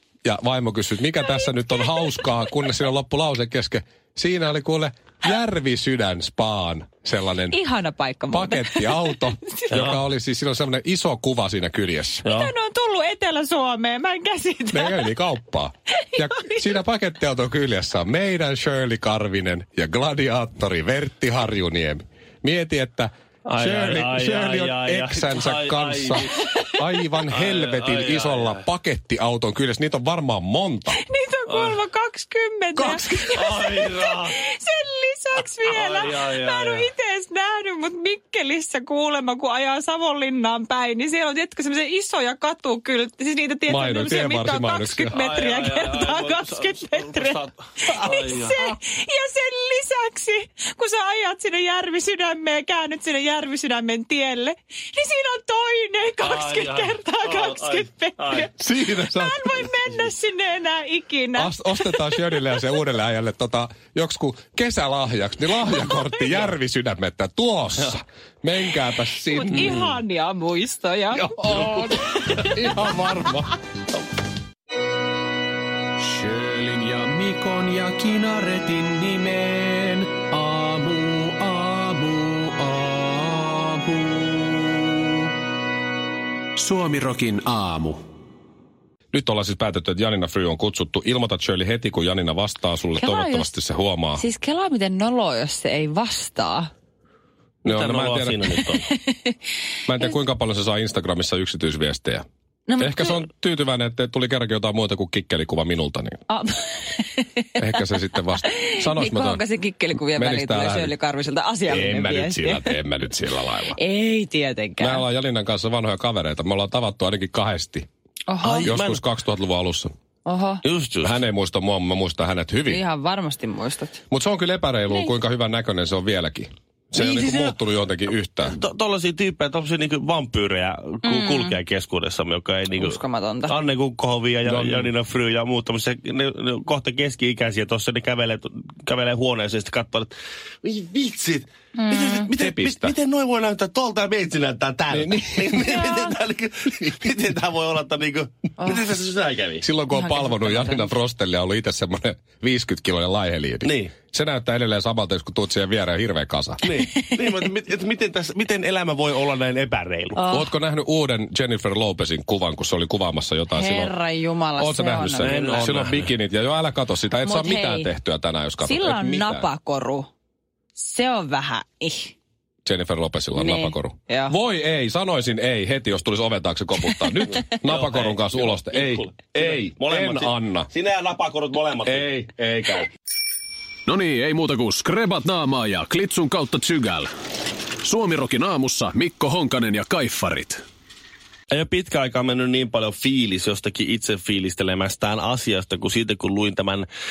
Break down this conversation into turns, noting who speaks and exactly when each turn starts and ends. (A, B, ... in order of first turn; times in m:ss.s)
0:00.2-0:07.6 A
0:07.5-0:09.7 B
0:08.3-0:12.3 A
0:09.8-0:10.0 C
0:12.2-0:12.5 C
0:12.3-0:15.1 B
0:14.7-0:31.0 A
0:16.2-0:16.6 B
0:23.4-0:26.4 C
0:27.3-0:28.6 C
0:31.0-1:02.6 B
0:31.5-0:31.8 C
0:33.3-0:34.4 C
0:35.7-0:36.9 C
0:43.7-0:45.2 A
0:45.2-0:48.7 C
0:56.2-0:58.5 C
0:58.6-0:59.6 A
0:59.6-1:00.1 C
1:01.4-1:09.8 A
1:09.3-1:11.7 B
1:09.5-1:09.8 C
1:11.1-1:13.5 A
1:11.6-1:11.8 C
1:12.2-1:13.0 B
1:16.0-1:25.0 D
1:26.6-1:28.0 D
1:29.1-1:34.2 A
1:33.0-1:33.5 B
1:34.2-1:36.7 B
1:37.6-1:38.4 A
1:37.7-1:38.8 C
1:39.1-1:39.3 B
1:39.9-1:42.2 A
1:42.7-1:43.2 B
1:42.8-1:46.2 A
1:46.3-1:47.8 B
1:47.6-1:49.4 A
1:48.4-1:52.8 B
1:50.0-1:50.9 A
1:51.7-1:53.8 A
1:53.8-1:55.0 B
1:54.8-1:57.9 A
1:58.3-1:58.7 B
1:58.4-1:59.0 C
1:58.6-1:59.9 A
2:00.3-2:00.6 B
2:00.6-2:01.1 C
2:01.0-2:02.8 A
2:02.7-2:04.0 B
2:04.1-2:08.6 A
2:06.9-2:07.6 C
2:08.4-2:20.1 C
2:11.0-2:11.6 B
2:12.7-2:13.6 B
2:14.5-2:14.9 A
2:20.6-2:29.6 C
2:21.8-2:22.3 B
2:22.4-2:22.9 A
2:24.9-2:25.8 A
2:29.6-2:36.6 A
2:29.9-2:30.9 B
2:33.6-2:33.9 C
2:36.6-2:40.2 C
2:37.0-2:37.3 B
2:40.2-2:40.5 B
2:40.3-2:43.9 A
2:43.5-2:45.7 B
2:44.6-2:49.5 A
2:45.2-2:46.1 C
2:47.2-2:47.9 B
2:48.6-2:50.1 B
2:50.8-2:52.1 B
2:52.6-3:00.7 A
2:53.3-2:54.4 B
2:57.6-3:02.8 C
3:01.9-3:02.8 A
3:03.9-3:07.1 D
3:07.8-3:10.6 D
3:11.5-3:16.9 C